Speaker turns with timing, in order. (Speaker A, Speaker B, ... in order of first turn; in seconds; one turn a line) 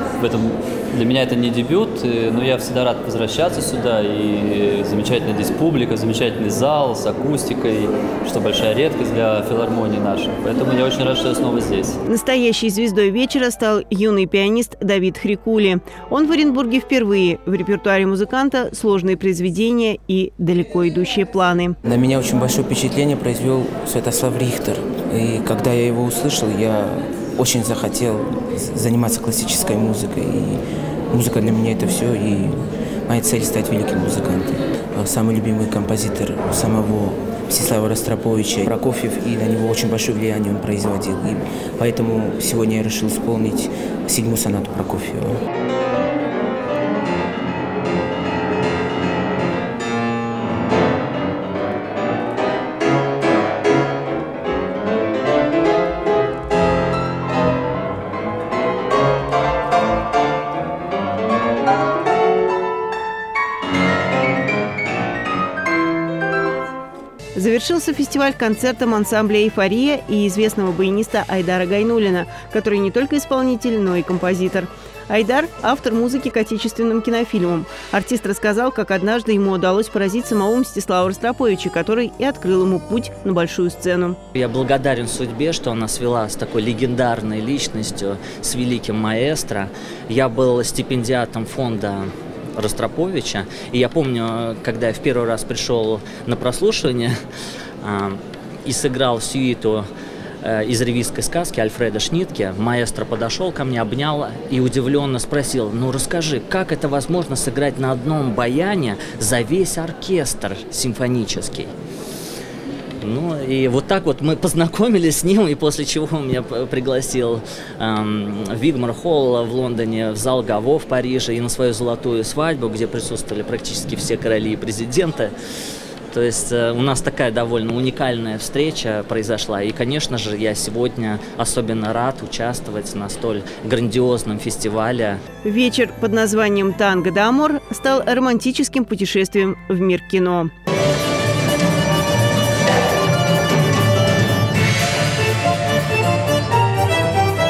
Speaker A: 0.2-12.0
Speaker B: 12.0-21.8
Speaker C: 21.8-45.4
Speaker B: 67.3-84.2
Speaker D: 84.3-97.1
Speaker D: 97.8-99.9
Speaker D: 100.4-111.7
Speaker D: 113.0-125.3
Speaker D: 126.1-135.2
Speaker B: 135.4-140.5